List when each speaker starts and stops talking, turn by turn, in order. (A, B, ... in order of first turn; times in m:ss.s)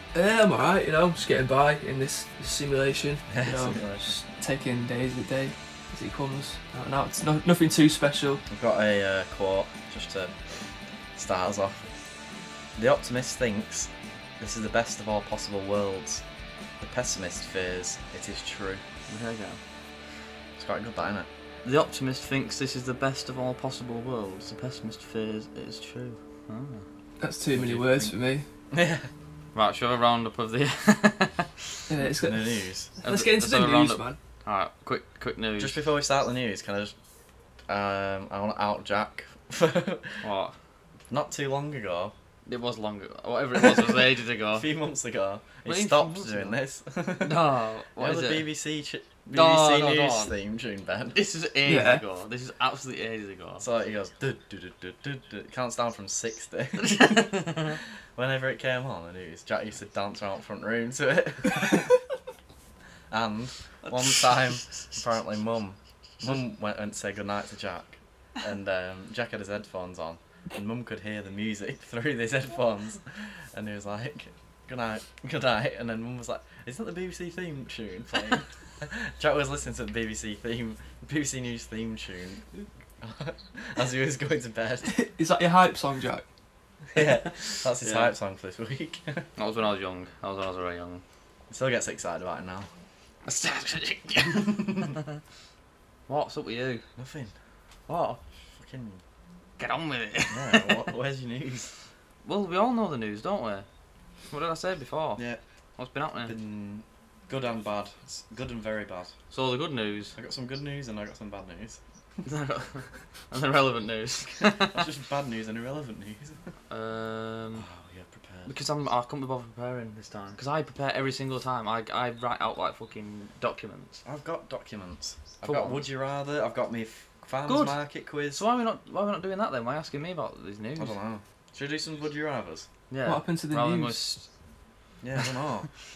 0:00.1-0:08.4 A
0:03.3-0:04.2 B
0:08.5-0:10.3 B
0:11.1-0:11.8 B
0:12.8-0:16.2 B
0:16.8-0:18.8 B
0:19.1-0:19.6 C
0:20.6-0:21.3 B
0:21.6-0:26.8 C
0:27.2-0:28.4 A
0:27.5-0:28.1 B
0:28.7-0:29.1 B
0:29.5-0:31.6 C
0:31.9-0:34.2 A
0:32.0-0:32.9 B
0:33.0-0:35.8 C
0:35.6-0:36.9 B
0:37.7-0:40.3 B
0:40.2-0:40.5 C
0:41.1-0:42.1 B
0:42.4-0:44.7 C
0:43.6-0:51.2 B
0:45.6-0:46.6 C
0:47.2-0:48.4 C
0:49.3-0:50.3 C
0:51.1-0:53.6 C
0:51.6-0:52.0 A
0:53.6-1:01.9 B
0:56.8-0:57.8 C
1:03.1-1:22.4 B
1:03.8-1:04.9 C
1:23.0-1:24.9 B
1:24.8-1:26.2 A
1:26.9-1:29.3 B
1:27.8-1:28.1 C
1:29.4-1:31.0 C
1:31.5-1:32.7 B
1:33.2-1:35.2 C
1:34.7-1:34.9 B
1:36.1-1:36.8 C
1:37.0-1:37.3 B
1:37.9-1:38.2 C
1:38.6-1:39.0 B
1:39.6-1:40.9 C
1:40.3-1:41.7 B
1:42.2-1:43.6 C
1:44.3-1:45.2 C
1:45.8-1:46.3 C
1:46.2-1:49.1 B
1:49.3-1:50.2 C
1:50.2-1:51.8 B
1:52.2-1:54.8 C
1:54.5-1:56.5 B
1:56.7-1:57.6 C
1:57.6-1:58.5 B
1:58.5-2:04.0 C
2:04.0-2:08.4 B
2:05.4-2:05.8 C
2:07.4-2:07.8 C
2:08.3-2:11.0 C
2:10.8-2:12.7 B
2:12.9-2:14.3 C
2:13.0-2:14.0 A
2:15.0-2:15.7 B